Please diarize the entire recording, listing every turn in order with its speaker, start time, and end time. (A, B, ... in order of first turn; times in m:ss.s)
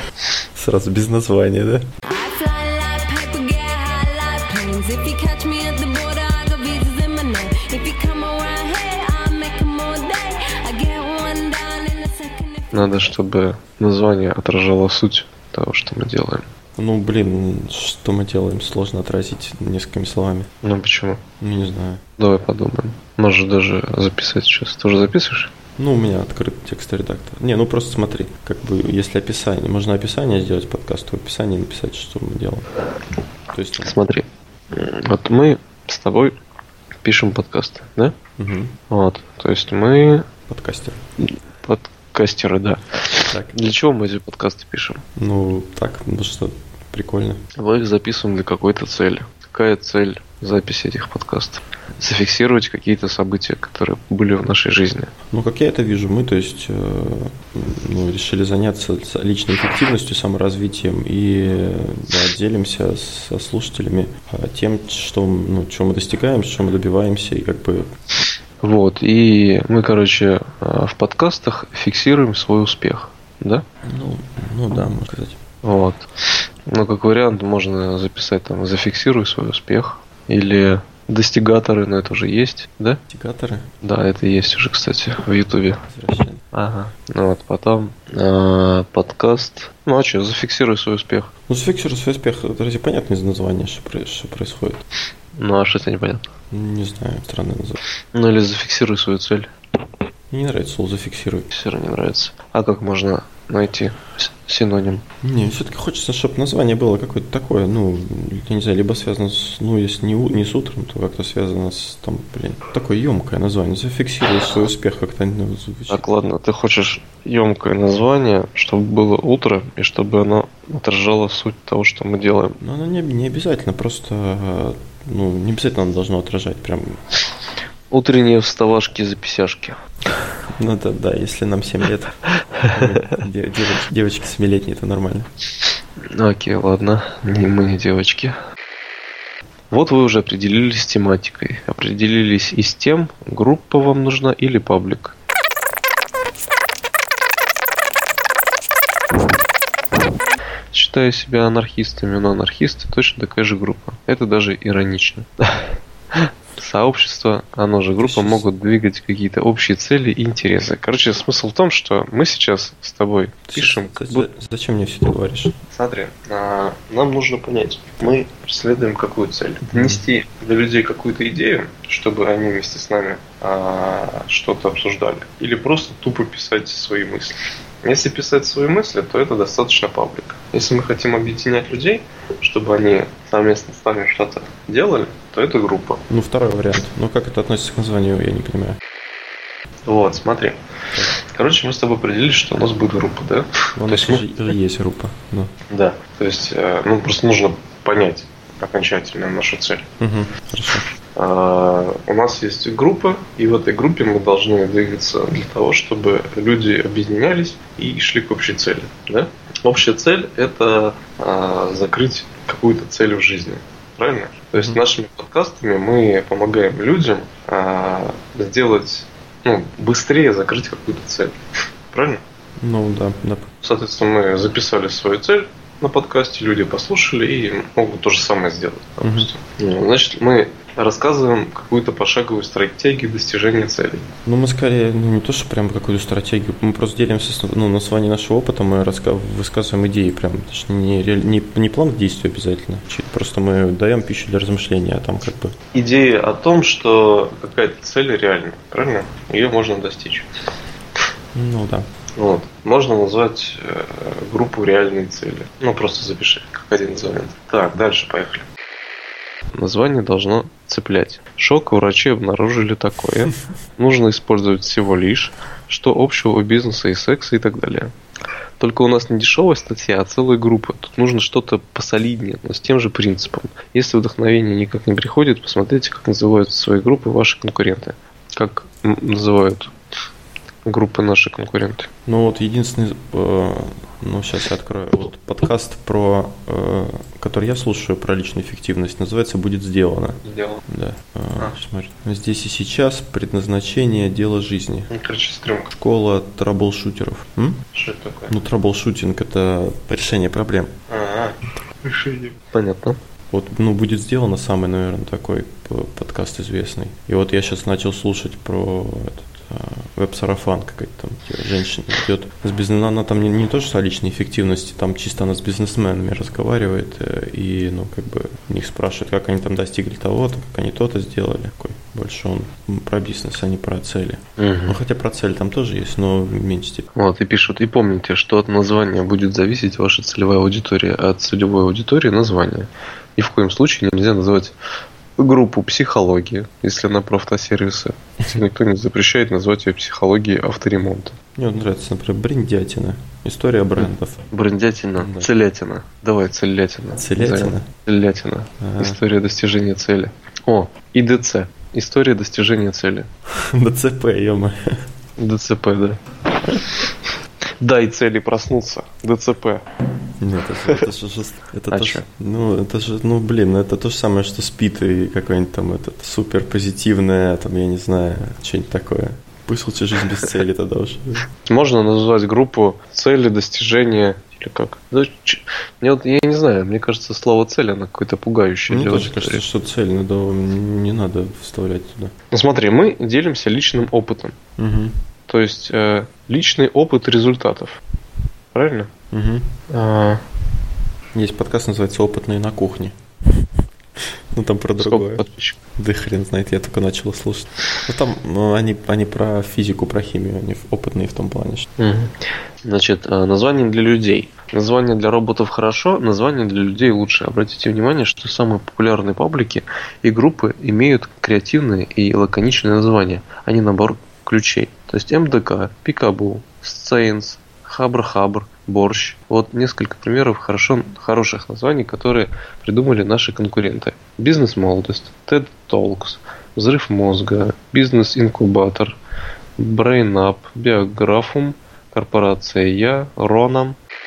0:00.5-0:01.8 A
0:02.1-0:12.9 B
0:12.7-0:16.4 C
0:16.8-0:20.5 A
0:20.6-0:21.2 C
0:21.4-0:22.0 A
0:22.2-0:25.5 C
0:25.8-0:32.7 A
0:33.5-0:33.9 A
0:33.8-0:36.3 C
0:37.0-0:38.2 C
0:38.4-0:38.7 A
0:38.9-0:40.3 C
0:40.5-0:41.0 A
0:41.6-0:45.0 C
0:43.2-0:43.6 A
0:45.2-0:47.4 A
0:47.6-0:55.1 C
0:55.3-1:07.9 A
1:08.6-1:13.6 C
1:13.8-1:15.4 A
1:15.6-1:16.0 C
1:16.6-1:23.0 C
1:23.1-1:23.7 A
1:23.8-1:25.8 C
1:25.8-1:26.4 A
1:26.5-1:31.3 C
1:31.5-1:34.8 A
1:35.4-1:36.2 C
1:36.5-1:37.8 A
1:38.1-1:39.5 C
1:40.3-1:41.5 A
1:41.5-1:45.0 C
1:45.2-1:56.0 A
1:55.9-2:02.6 C
2:02.6-2:07.0 A
2:07.9-2:09.8 C
2:10.6-2:12.1 A
2:12.6-2:13.0 C
2:12.7-2:15.3 A
2:16.0-2:18.4 C
2:19.7-2:25.1 C
2:30.7-2:44.3 C
2:38.0-2:38.4 A
2:43.5-2:45.5 A
2:45.7-3:06.0 C
2:49.7-2:50.0 A
3:06.1-3:08.8 A
3:09.8-3:10.6 C
3:11.1-3:14.2 C
3:13.8-3:15.5 A
3:15.7-3:19.9 C
3:20.0-3:20.9 A
3:21.1-3:41.4 C
3:41.9-3:42.2 C
3:42.6-3:43.5 A
3:43.6-3:54.1 C
3:49.0-3:49.3 A
3:54.2-4:05.5 A
4:05.7-4:10.3 C
4:11.3-4:11.9 A
4:12.2-4:18.5 C
4:19.5-4:27.9 C
4:28.6-4:39.7 C
4:40.6-4:41.9 C
4:42.0-4:54.9 A
4:50.2-4:50.6 C
4:54.9-4:55.7 C
4:55.7-4:57.6 A
4:57.7-4:58.3 C
4:58.3-5:00.7 A
5:00.9-5:03.0 C
5:03.3-5:26.9 A
5:24.4-5:24.8 C
5:26.9-5:34.5 C
5:35.2-5:41.2 C
5:41.4-5:44.2 A
5:43.8-5:53.1 C
5:45.0-5:45.3 A
5:47.0-5:47.7 A
5:48.6-5:49.0 A
5:53.4-5:54.6 A
5:55.2-5:56.9 C
5:57.6-5:59.6 C
6:00.2-6:11.3 A
6:01.7-6:02.0 C
6:11.4-6:19.4 C
6:18.7-6:22.1 A
6:22.3-6:24.4 C
6:24.6-6:25.0 A
6:25.3-6:27.8 C
6:28.5-6:28.9 C
6:29.1-6:29.5 A
6:29.7-6:30.2 C
6:31.1-6:32.9 A
6:34.0-6:35.2 A
6:34.8-6:35.6 C
6:35.8-6:41.7 A
6:41.8-7:09.0 C
7:09.6-7:13.8 C